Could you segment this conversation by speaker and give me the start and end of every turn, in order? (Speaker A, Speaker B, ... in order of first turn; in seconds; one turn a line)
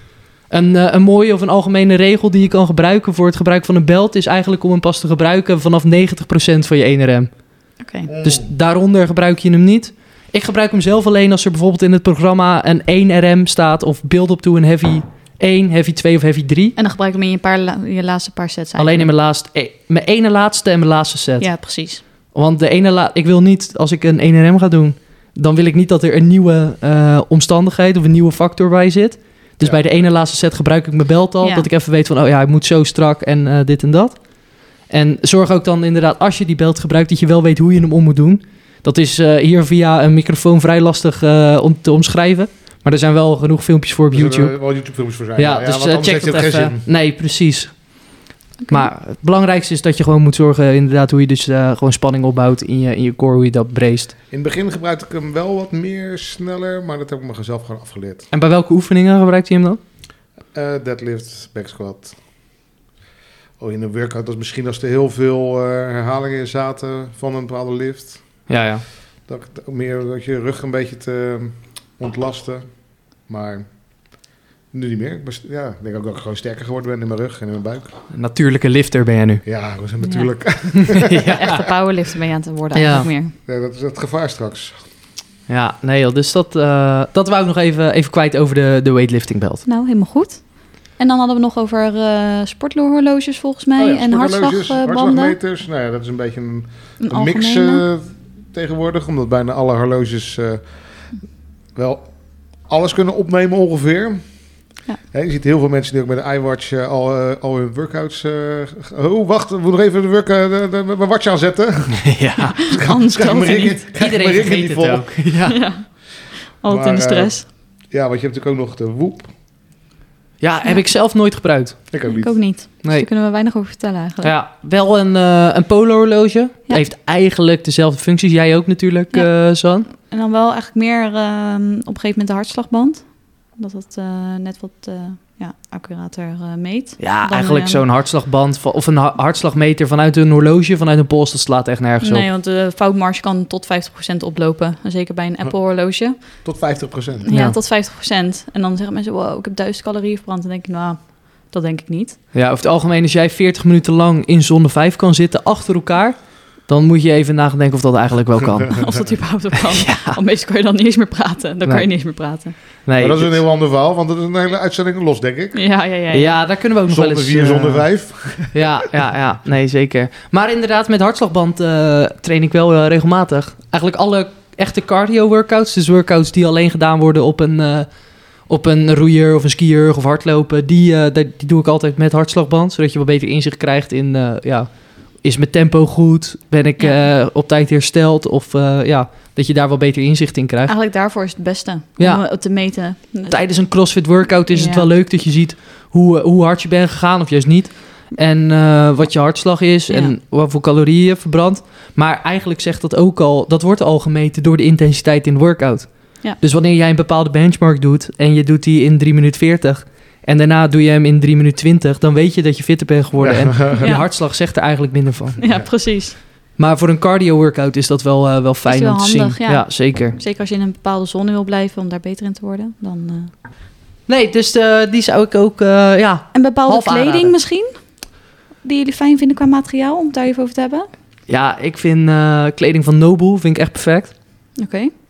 Speaker A: 0.5-7.3
Speaker B: 7.8-8.1
Speaker C: 8.1-8.5
Speaker A: 8.2-16.8
Speaker B: 16.8-19.1
Speaker A: 18.8-21.5
Speaker B: 21.4-22.0
Speaker A: 22.3-34.2
Speaker B: 31.4-31.7
Speaker A: 34.9-44.5
Speaker C: 44.1-46.8
Speaker A: 45.4-47.8
Speaker B: 48.6-48.9
Speaker A: 48.7-54.1
Speaker C: 54.3-58.3
Speaker A: 58.3-59.8
Speaker C: 60.5-62.1
Speaker C: 63.6-68.2
Speaker A: 68.5-68.8
Speaker C: 69.3-72.7
Speaker C: 73.3-73.7
Speaker C: 74.7-77.9
Speaker A: 78.1-79.4
Speaker C: 79.5-81.6
Speaker B: 80.0-80.3
Speaker A: 80.8-81.5
Speaker B: 81.3-83.3
Speaker A: 82.7-83.1
Speaker C: 83.5-84.8
Speaker A: 85.5-89.6
Speaker B: 89.7-95.4
Speaker C: 93.8-100.6
Speaker B: 97.0-97.8
Speaker C: 101.8-102.1
Speaker C: 102.7-104.2
Speaker C: 105.1-115.2
Speaker A: 112.0-112.6
Speaker B: 112.6-113.8
Speaker A: 114.0-115.6
Speaker B: 115.5-115.8
Speaker B: 116.4-117.5
Speaker C: 116.7-117.3
Speaker C: 117.9-119.3
Speaker A: 120.4-121.8
Speaker C: 121.9-122.4
Speaker B: 122.0-124.3
Speaker A: 124.2-129.9
Speaker B: 129.9-137.8
Speaker A: 137.0-142.3
Speaker B: 142.0-146.4
Speaker C: 146.4-147.3
Speaker B: 147.3-152.2
Speaker A: 147.3-147.6
Speaker A: 152.3-158.8
Speaker B: 158.7-162.6
Speaker A: 159.8-160.2
Speaker A: 162.8-163.4
Speaker C: 163.0-165.6
Speaker B: 165.6-166.3
Speaker A: 166.1-167.9
Speaker C: 166.9-168.6
Speaker A: 168.5-177.9
Speaker A: 178.5-190.7
Speaker B: 186.8-187.1
Speaker B: 190.7-193.5
Speaker A: 192.0-192.2
Speaker A: 193.3-215.4
Speaker B: 194.5-194.9
Speaker B: 199.9-200.1
Speaker C: 213.2-213.9
Speaker B: 213.8-214.1
Speaker B: 215.4-216.2
Speaker A: 216.6-220.2
Speaker B: 218.7-223.3
Speaker A: 224.1-227.3
Speaker B: 226.3-227.8
Speaker B: 228.6-230.9
Speaker A: 231.3-234.2
Speaker B: 234.6-234.9